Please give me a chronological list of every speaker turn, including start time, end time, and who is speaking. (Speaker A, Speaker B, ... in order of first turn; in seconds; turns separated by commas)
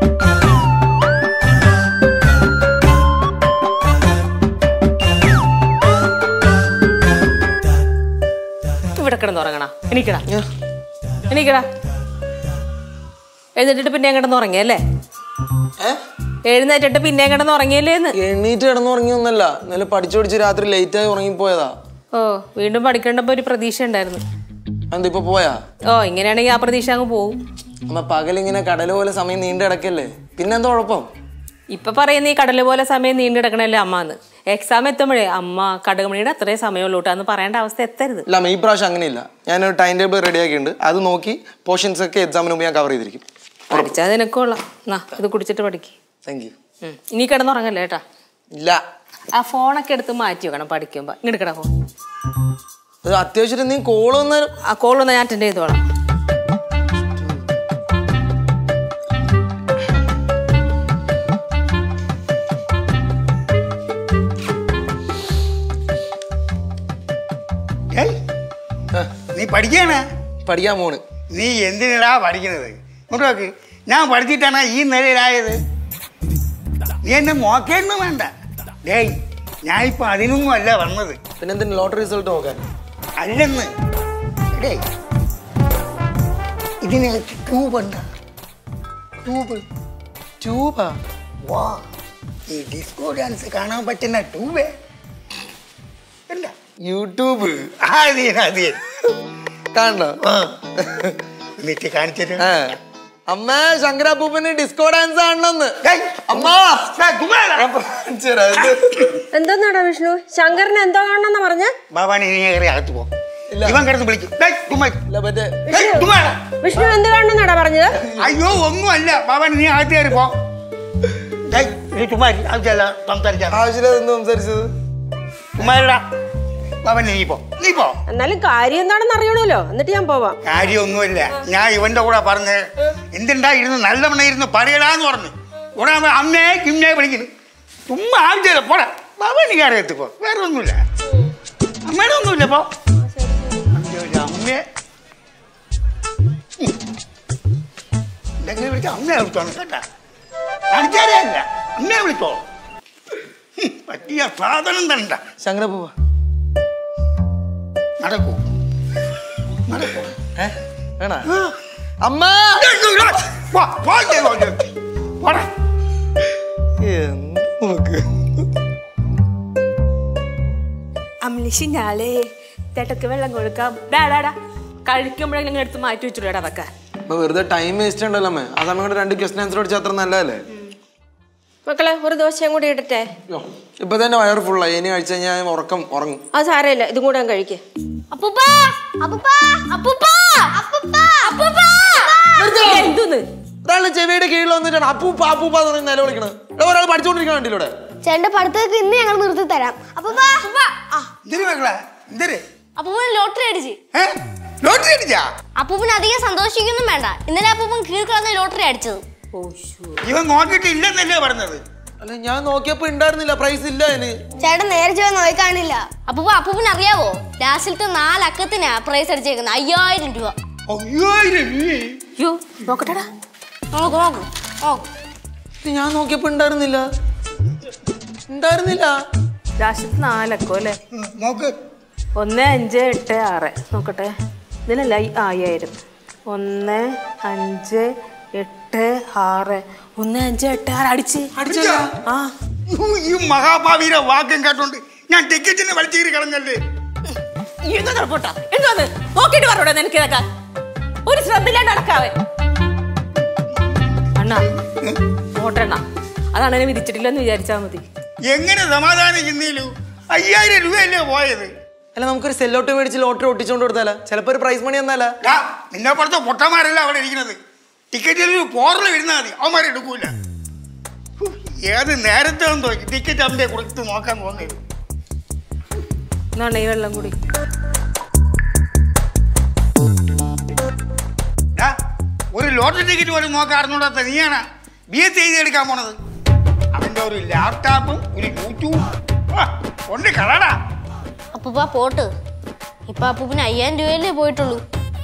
Speaker A: 8.9-10.2, Speaker A: 11.3-11.7, Speaker A: 13.6-14.8, Speaker A: 16.5-18.1, Speaker B: 18.2-21.7, Speaker A: 22.1-24.2, Speaker B: 24.9-25.6, Speaker A: 25.9-27.4, Speaker B: 27.9-31.1, Speaker A: 31.7-38.2, Speaker B: 38.3-43.8, Speaker A: 43.7-45.9, Speaker B: 46.2-46.5, Speaker A: 46.8-48.0, Speaker B: 48.5-48.8, Speaker A: 49.3-51.7, Speaker B: 53.0-54.5, Speaker A: 54.7-55.8, Speaker C: 69.3-70.0, Speaker B: 70.4-71.0, Speaker C: 71.3-75.6, Speaker C: 77.0-78.3, Speaker C: 78.8-79.1, Speaker C: 79.7-81.2, Speaker B: 81.4-82.6, Speaker C: 83.2-83.7, Speaker C: 84.5-84.8, Speaker C: 86.8-88.0, Speaker C: 89.2-89.6, Speaker B: 90.4-91.0, Speaker C: 91.5-91.8, Speaker C: 92.5-94.7, Speaker C: 96.3-96.5, Speaker B: 96.8-97.7, Speaker C: 97.8-98.8, Speaker B: 99.7-100.2, Speaker C: 100.2-100.6, Speaker B: 100.8-101.1, Speaker C: 101.6-102.5, Speaker B: 102.4-102.8, Speaker B: 103.3-105.8, Speaker C: 105.8-107.7, Speaker B: 106.3-106.9, Speaker B: 107.6-109.1, Speaker D: 109.3-111.7, Speaker C: 111.9-113.1, Speaker B: 113.5-113.8, Speaker C: 113.6-115.0, Speaker B: 115.1-115.7, Speaker D: 115.7-116.1, Speaker C: 115.7-116.4, Speaker D: 116.6-118.0, Speaker C: 118.2-120.3, Speaker C: 121.5-123.6, Speaker B: 123.5-124.7, Speaker C: 125.6-126.0, Speaker C: 126.8-128.0, Speaker D: 128.1-130.4, Speaker C: 130.4-132.6, Speaker C: 133.1-137.3, Speaker C: 137.9-140.8, Speaker C: 141.8-142.7, Speaker D: 143.0-143.7, Speaker C: 143.7-144.6, Speaker C: 148.4-149.8, Speaker C: 150.7-152.4, Speaker C: 153.6-155.2, Speaker B: 155.4-155.9, Speaker C: 158.0-158.4, Speaker C: 159.7-160.1, Speaker B: 160.4-161.3, Speaker B: 162.0-162.7, Speaker C: 162.6-165.5, Speaker B: 166.8-168.0, Speaker A: 171.2-176.7, Speaker B: 177.1-180.4, Speaker D: 181.7-183.1, Speaker B: 183.3-186.2, Speaker D: 186.3-187.6, Speaker E: 188.1-188.9, Speaker F: 189.0-189.6, Speaker E: 189.7-190.5, Speaker F: 190.5-192.6, Speaker E: 191.2-192.1, Speaker A: 192.4-193.2, Speaker B: 192.5-192.9, Speaker B: 193.6-197.7, Speaker F: 198.0-201.1, Speaker E: 200.4-200.7, Speaker C: 201.2-202.4, Speaker E: 202.8-203.8, Speaker C: 203.9-205.2, Speaker E: 205.6-209.0, Speaker A: 209.3-210.0, Speaker C: 210.0-211.6, Speaker B: 212.0-214.2, Speaker F: 214.4-215.8, Speaker E: 216.1-220.3, Speaker C: 220.7-222.0, Speaker A: 222.2-223.1, Speaker E: 223.7-224.8, Speaker B: 225.6-226.8, Speaker B: 228.3-228.9, Speaker A: 229.6-230.8, Speaker C: 230.9-231.5, Speaker A: 232.2-234.1, Speaker A: 234.7-235.8, Speaker A: 236.3-241.3, Speaker B: 241.3-241.9, Speaker C: 241.4-241.9, Speaker A: 242.1-242.3, Speaker C: 242.7-246.6, Speaker A: 247.6-250.2, Speaker A: 251.1-252.1, Speaker A: 254.2-254.5, Speaker C: 254.7-254.9, Speaker A: 255.3-255.8, Speaker A: 256.3-257.8, Speaker C: 258.3-261.5, Speaker B: 261.9-265.1, Speaker C: 265.2-267.4, Speaker C: 267.9-270.1, Speaker C: 271.2-274.6, Speaker A: 276.4-277.1, Speaker C: 282.3-285.9, Speaker C: 286.7-288.8, Speaker C: 289.3-290.6, Speaker E: 291.3-292.1, Speaker E: 292.9-294.6